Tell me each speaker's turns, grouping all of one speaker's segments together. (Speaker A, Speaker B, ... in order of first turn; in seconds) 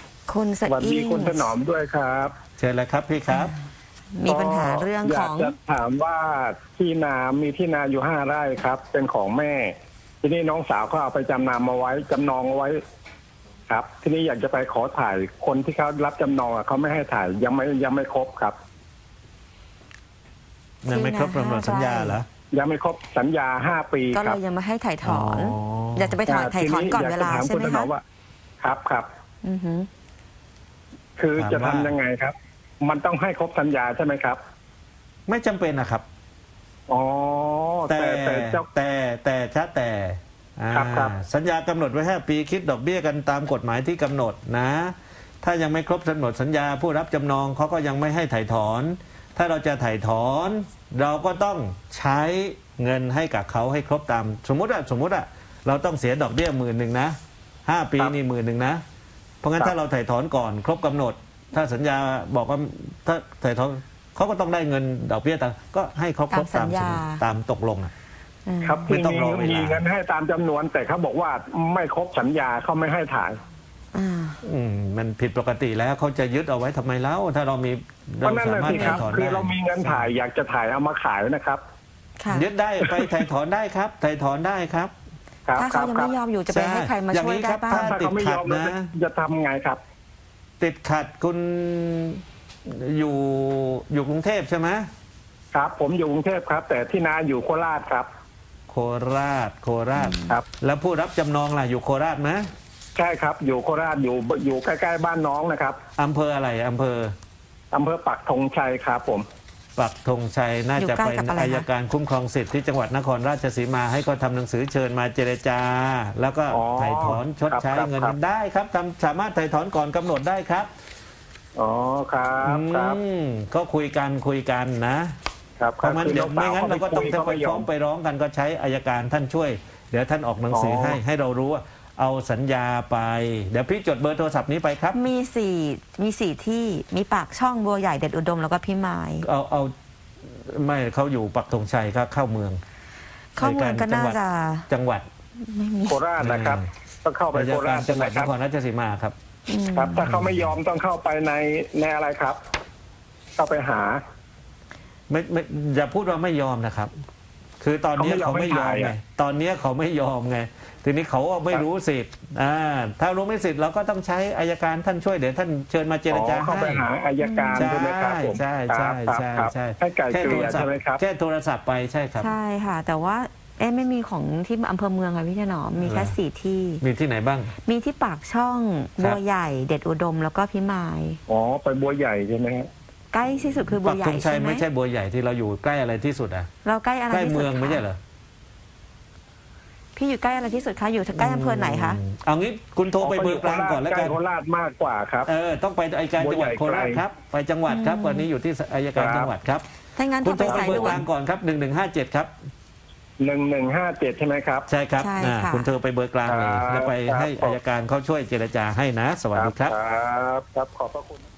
Speaker A: 0.3-1.5, 3.3-3.6, 4.1-5.5, 20.9-22.2, 24.1-27.9, 29.4-29.9, 66.3-67.2, 68.5-68.9, 73.9-74.4, 78.6-79.0, 82.2-82.5, 85.5-88.0, 110.8-111.7, 134.9-139.2, 143.3-144.7, 145.4-146.0, 149.5-150.1, 167.2-167.7, 170.2-170.5, 172.2-176.8, 177.6-181.2, 183.1-184.6, 186.6-187.8, 189.9-192.0, 197.7-198.3, 199.9-201.0, 205.0-205.7
Speaker B: 0.7-2.3, 4.2-12.8, 13.7-18.6, 22.5-24.4, 26.3-28.0, 28.6-29.1, 31.2-34.4, 36.9-38.6, 40.7-41.1, 68.6-73.4, 78.2-81.6, 85.5-86.1, 87.7-89.8, 95.5-98.1, 103.0-105.8, 107.7-109.2, 116.5-118.2, 121.5-123.0, 125.6-127.7, 130.5-131.0, 145.8-148.3, 149.7-152.4, 153.4-154.0, 157.9-158.9, 166.1-171.0, 181.3-182.7, 193.0-195.3, 196.2-197.0, 198.9-199.3, 200.4-201.0, 203.2-204.7, 206.2-207.6, 209.3-211.3
Speaker C: 2.6-3.5, 20.8-22.2, 25.0-26.1, 31.4-31.9, 35.3-36.0, 37.9-58.8, 59.4-67.9, 68.9-69.8, 74.4-80.1, 82.3-84.9, 86.5-88.9, 90.6-94.9, 98.7-102.5, 106.0-107.1, 109.8-120.7, 122.4-125.1, 125.8-135.0, 139.2-139.7, 140.2-142.6, 143.4-145.1, 146.2-146.7, 147.3-149.1, 150.0-150.6, 155.1-156.9, 157.6-166.8, 167.5-172.3, 175.8-176.1, 176.8-177.5, 183.7-186.5, 187.1-188.0, 191.1-194.2, 195.2-199.7, 200.2-202.3, 204.7-209.7